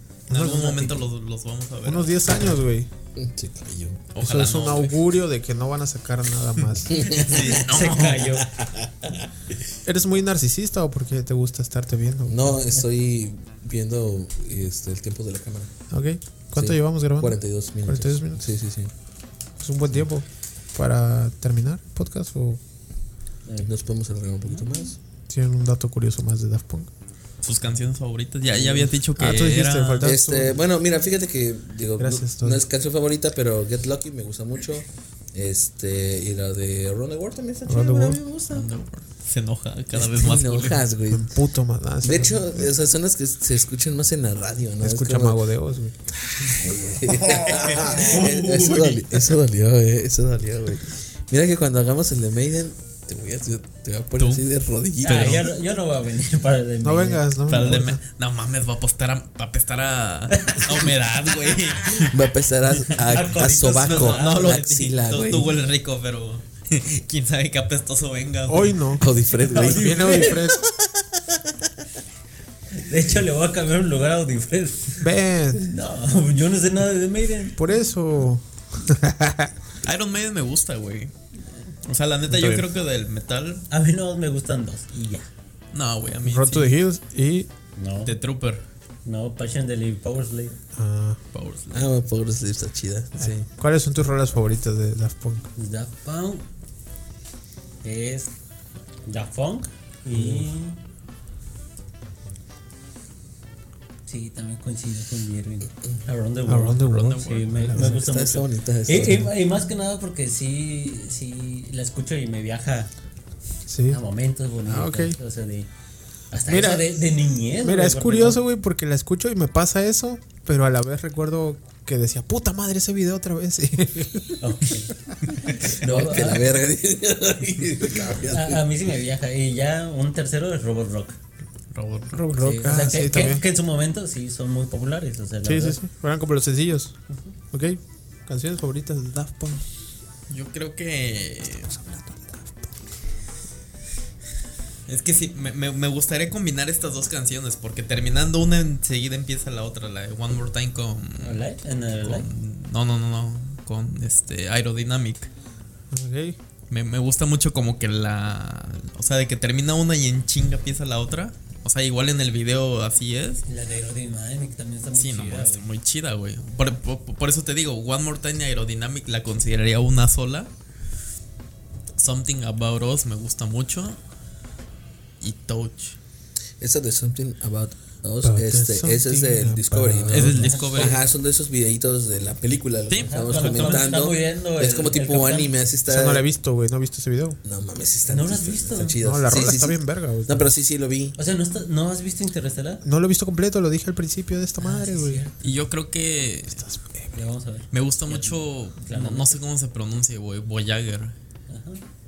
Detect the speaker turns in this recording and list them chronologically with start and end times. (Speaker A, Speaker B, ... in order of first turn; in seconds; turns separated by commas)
Speaker A: 0.3-2.2, Speaker B: 0.3-0.7, Speaker C: 0.3-1.0, Speaker B: 1.8-2.9, Speaker D: 3.1-4.1, Speaker A: 4.1-5.0, Speaker B: 4.2-7.1, Speaker D: 6.9-9.3, Speaker A: 7.0-8.3, Speaker C: 7.2-8.5, Speaker B: 9.8-12.6, Speaker D: 12.3-15.7, Speaker B: 15.9-18.5, Speaker D: 16.5-18.9, Speaker B: 19.6-22.6, Speaker C: 23.4-23.7, Speaker D: 23.6-25.0, Speaker B: 25.3-26.9, Speaker A: 27.4-30.1, Speaker D: 28.5-28.9, Speaker B: 29.1-30.6, Speaker D: 30.0-38.7, Speaker B: 32.0-32.6, Speaker B: 37.6-38.2, Speaker A: 38.5-40.8, Speaker D: 39.9-41.3, Speaker B: 41.1-42.7, Speaker D: 42.0-45.4, Speaker B: 44.8-46.0, Speaker D: 46.3-55.5, Speaker A: 47.2-49.3, Speaker A: 54.2-54.5, Speaker C: 55.0-57.6, Speaker A: 55.0-55.5, Speaker B: 56.8-58.0, Speaker A: 57.5-62.2, Speaker C: 60.3-60.9, Speaker D: 61.9-65.6, Speaker C: 62.8-64.6, Speaker A: 63.6-69.0, Speaker B: 68.5-70.7, Speaker D: 69.0-71.5, Speaker C: 69.3-70.5, Speaker C: 72.7-77.6, Speaker B: 75.0-75.6, Speaker B: 77.5-79.5, Speaker A: 79.8-81.1, Speaker A: 81.8-83.6, Speaker B: 82.3-82.7, Speaker C: 83.7-85.3, Speaker A: 85.7-86.8, Speaker B: 86.2-87.5, Speaker C: 87.8-88.2, Speaker A: 88.0-88.6, Speaker C: 89.0-90.6, Speaker B: 90.7-91.2, Speaker A: 91.3-91.9, Speaker D: 91.7-93.5, Speaker B: 93.2-95.5, Speaker C: 95.5-96.5, Speaker C: 97.8-98.3, Speaker C: 99.0-100.8, Speaker C: 104.1-112.9, Speaker B: 106.5-108.0, Speaker A: 106.8-107.5, Speaker D: 107.7-109.3, Speaker B: 113.7-114.0, Speaker C: 113.9-115.7, Speaker B: 114.7-115.2, Speaker C: 116.3-118.4, Speaker B: 116.5-117.0, Speaker B: 117.6-124.7, Speaker C: 124.4-126.6, Speaker D: 125.5-128.7, Speaker C: 128.3-131.2, Speaker A: 131.7-132.2, Speaker B: 132.1-133.4, Speaker C: 132.3-135.8, Speaker B: 135.4-136.9, Speaker B: 137.5-139.6, Speaker A: 140.3-141.7, Speaker B: 141.6-142.7, Speaker A: 144.9-151.4, Speaker C: 151.2-152.3, Speaker A: 152.0-155.3, Speaker B: 155.9-156.4, Speaker A: 156.7-163.4, Speaker C: 163.5-165.7, Speaker A: 164.9-170.5, Speaker A: 172.0-174.0, Speaker A: 175.2-176.0, Speaker D: 176.6-186.2, Speaker B: 178.2-180.6, Speaker A: 180.1-181.0, Speaker C: 180.4-181.0, Speaker A: 182.9-183.9, Speaker C: 183.0-185.5, Speaker B: 185.9-187.4, Speaker D: 187.4-191.2, Speaker C: 188.1-189.0, Speaker B: 189.0-190.5, Speaker C: 191.2-192.8, Speaker B: 192.8-195.2, Speaker C: 194.6-195.5, Speaker A: 195.4-196.6, Speaker B: 196.5-197.2, Speaker C: 197.1-199.4, Speaker A: 197.7-201.1, Speaker C: 201.5-201.8